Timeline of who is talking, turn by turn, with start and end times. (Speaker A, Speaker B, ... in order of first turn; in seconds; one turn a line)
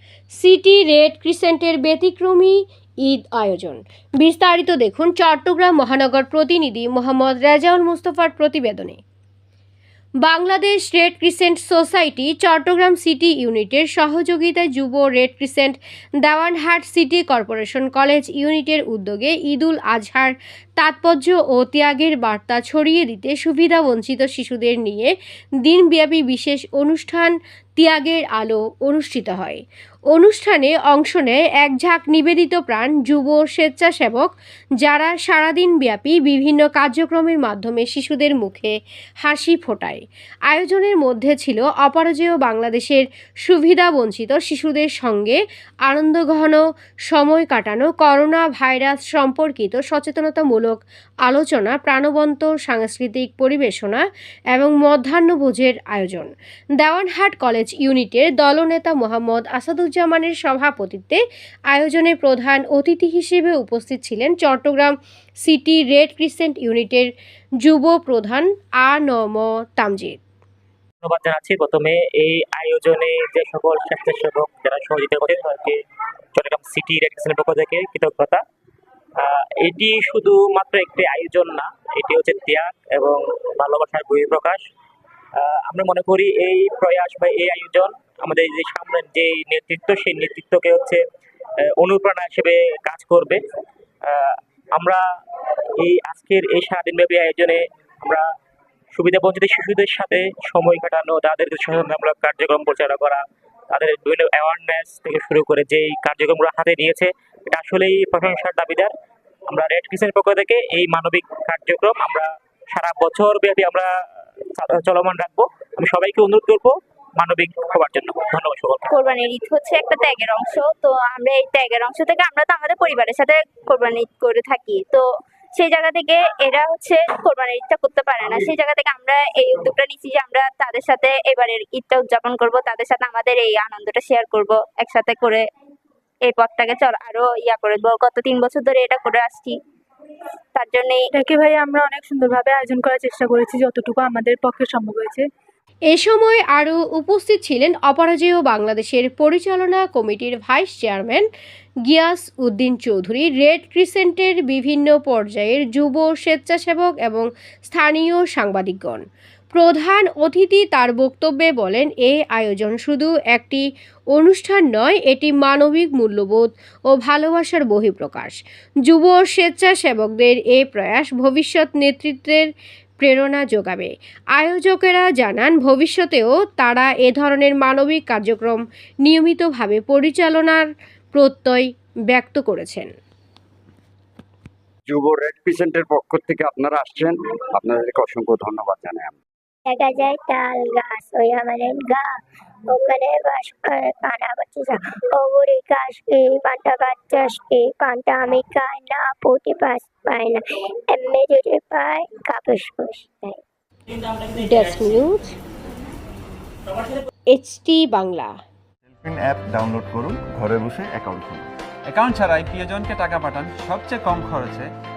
Speaker A: 0.4-9.0
Speaker A: 10.2-70.2
Speaker B: 71.0-75.8
Speaker B: 76.3-78.4
Speaker B: 79.2-84.6
Speaker B: 85.4-91.0
Speaker B: 91.6-93.4
Speaker B: 94.0-95.0
Speaker B: 95.8-98.3
Speaker B: 98.9-108.9
Speaker B: 109.5-113.9
Speaker B: 114.5-118.9
Speaker C: 118.9-135.4
Speaker C: 136.2-139.6
Speaker C: 140.6-141.1
Speaker D: 141.1-145.2
Speaker A: 145.9-151.3
Speaker A: 151.9-182.9
Speaker E: 184.9-189.2
Speaker F: 189.7-192.1
Speaker F: 192.7-203.4
Speaker A: 204.3-205.3
Speaker A: 207.3-208.4
Speaker G: 209.0-211.5
Speaker H: 211.9-214.7